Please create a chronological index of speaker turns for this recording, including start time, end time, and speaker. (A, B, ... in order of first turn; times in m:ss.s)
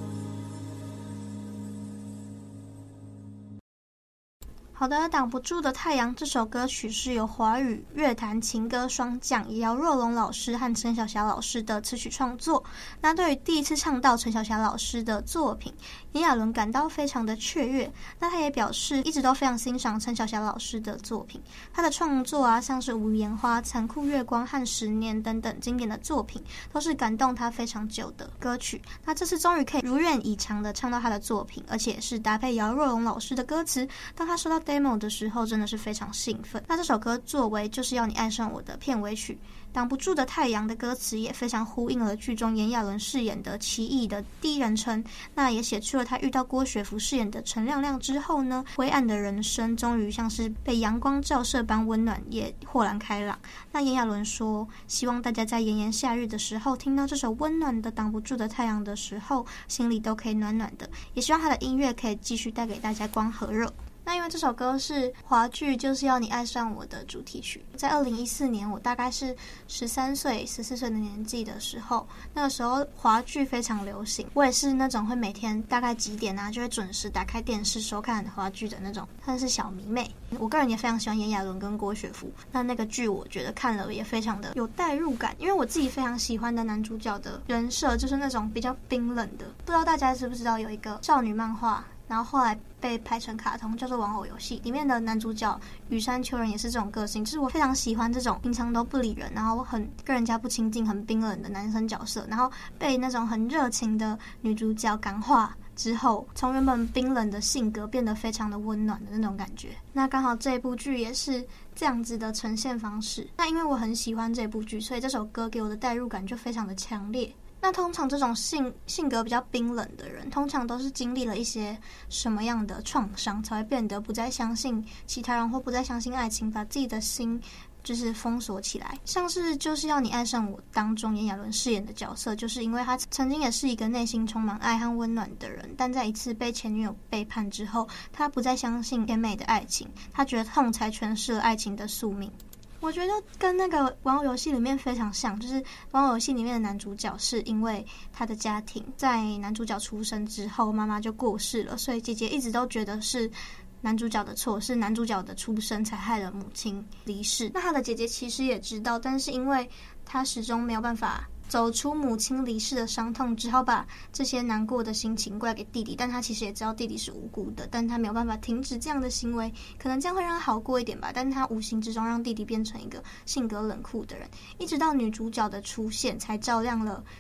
0:04.8-2:57.1 A